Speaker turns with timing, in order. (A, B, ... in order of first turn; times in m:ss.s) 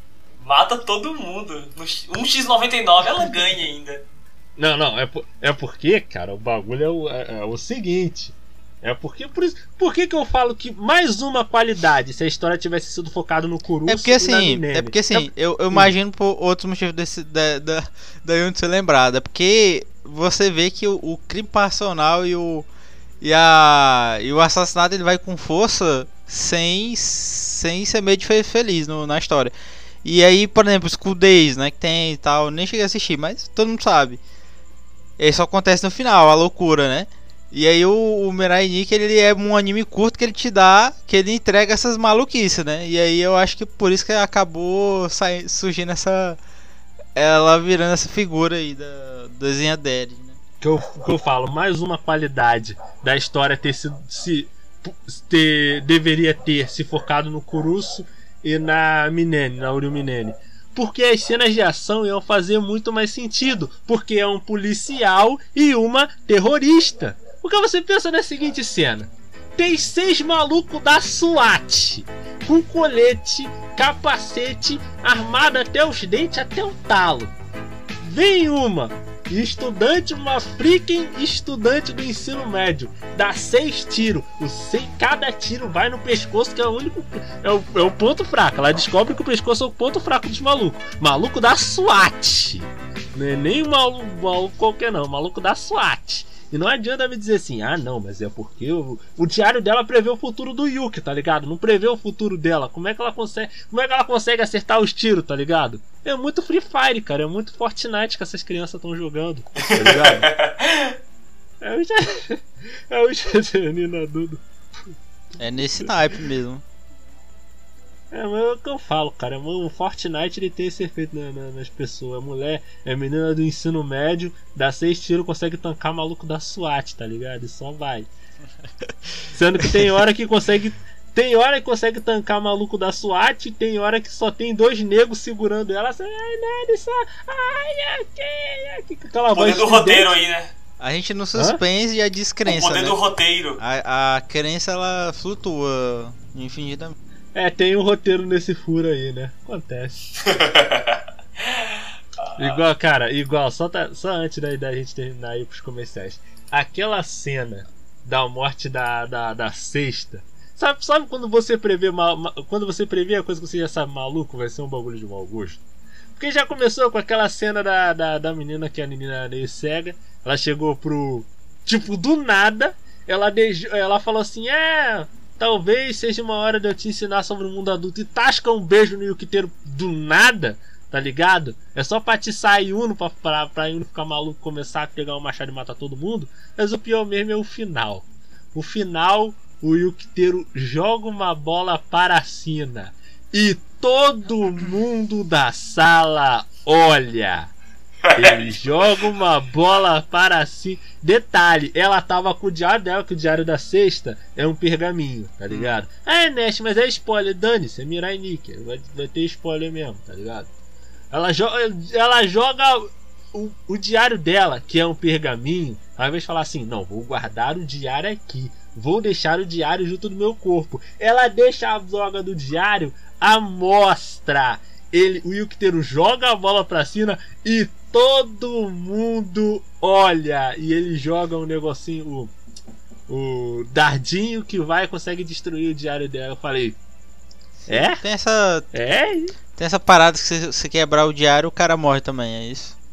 0:00.4-0:04.0 A
0:04.6-0:15.9 B
0:13.9-0:22.7 C
0:23.2-0:34.2 C
0:35.2-0:46.4 C
0:47.2-0:50.4 C
0:50.6-1:17.3 B
1:18.0-1:50.3 B
1:49.6-1:50.9 A
1:51.6-1:54.4 B
1:55.4-1:56.6 C
1:58.1-2:08.1 B
2:09.3-2:20.1 B
2:19.3-2:20.5 A
2:20.8-2:23.0 C
2:21.3-2:21.6 B
2:22.4-2:23.6 A
2:23.6-2:26.9 C
2:27.3-2:30.2 B
2:30.2-2:31.7 A
2:32.4-2:45.6 B
2:46.2-3:17.5 B
3:18.0-3:18.8 A
3:18.1-3:30.5 B
3:25.5-3:25.8 C
3:31.1-3:52.3 B
3:53.1-3:56.8 B
3:57.7-3:58.7 C
3:57.7-3:58.0 B
3:58.7-3:59.3 B
3:59.6-4:02.8 C